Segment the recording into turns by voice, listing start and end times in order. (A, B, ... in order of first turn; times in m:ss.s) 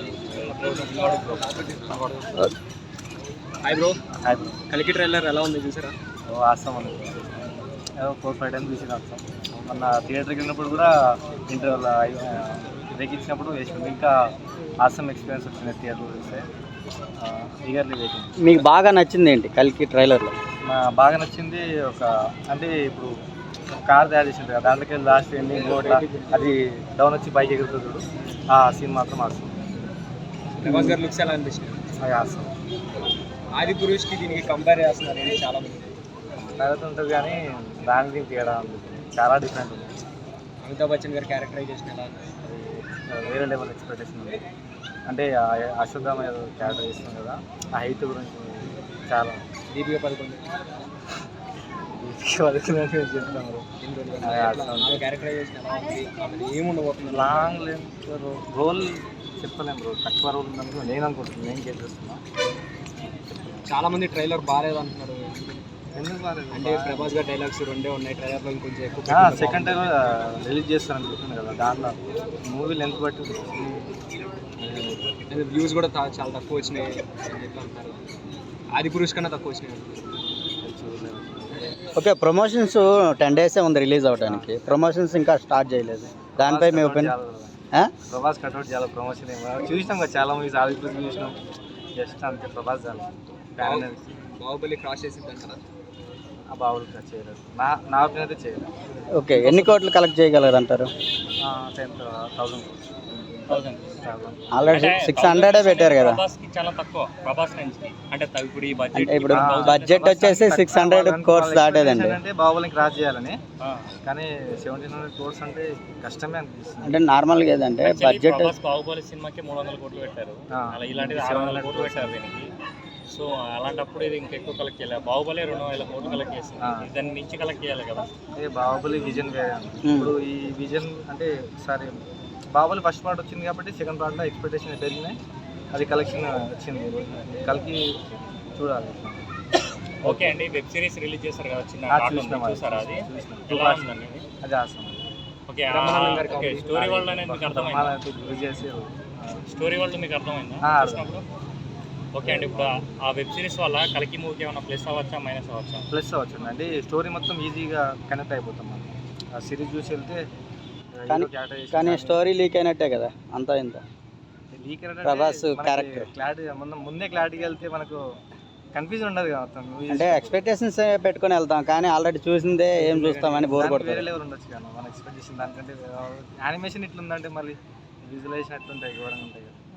0:00.3-0:02.3 A
0:03.6-0:04.0 A
0:04.2-0:04.6 B
0:04.7-0:05.9 A
0:06.3-0:07.5 B
0:08.0-0:10.9 B
0:11.5-0:14.2 B
0:14.8-0:16.4 B
0:17.2-0:18.5 B
0:18.4-0:20.3 C
0:20.6-0:23.1 B
0:23.8-0:29.6 B
0:25.6-0:26.5 A
0:30.5-0:31.8 A
0:30.6-0:31.0 B
0:32.0-0:32.5 B
0:33.5-0:36.0 A
0:36.6-0:39.9 B
0:40.6-0:42.3 A
0:42.4-0:44.4 B
0:45.1-0:49.4 B
0:49.7-0:50.5 A
0:52.0-0:53.7 B
0:53.8-0:57.5 A
0:54.2-0:55.0 B
0:57.1-1:02.2 B
1:03.6-1:05.6 A
1:06.0-1:07.2 B
1:06.5-1:09.9 A
1:09.1-1:13.6 B
1:13.6-1:13.9 A
1:14.6-1:18.0 A
1:18.7-1:20.2 A
1:20.6-1:21.7 B
1:22.0-1:27.1 C
1:24.2-1:24.5 B
1:26.4-1:31.4 B
1:32.0-1:34.1 B
1:33.6-1:35.6 A
1:36.5-1:38.7 B
1:39.1-1:40.9 C
1:41.4-1:42.8 B
1:43.5-1:44.0 D
1:44.0-1:44.4 B
1:44.5-1:46.2 C
1:44.6-1:50.4 D
1:48.9-1:52.2 C
1:49.3-1:53.4 B
1:53.6-1:53.9 D
1:54.0-1:57.0 B
1:56.8-1:58.5 C
1:57.8-2:02.5 D
2:00.5-2:02.1 B
2:03.1-2:08.1 D
2:06.6-2:06.9 B
2:08.4-2:12.0 B
2:09.8-2:10.1 C
2:12.5-2:15.2 B
2:15.7-2:17.8 B
2:18.5-2:19.3 B
2:20.0-2:24.2 D
2:21.9-2:25.0 B
2:25.5-2:28.0 D
2:25.7-2:27.0 A
2:26.8-2:29.4 B
2:29.5-2:31.2 D
2:30.6-2:31.2 B
2:32.1-2:35.8 D
2:32.2-2:32.9 B
2:35.9-2:40.2 B
2:41.0-2:42.2 B
2:41.1-2:43.8 C
2:44.5-2:48.0 B
2:45.0-2:46.1 C
2:48.7-2:50.4 B
2:49.9-2:54.0 C
2:52.8-2:59.6 B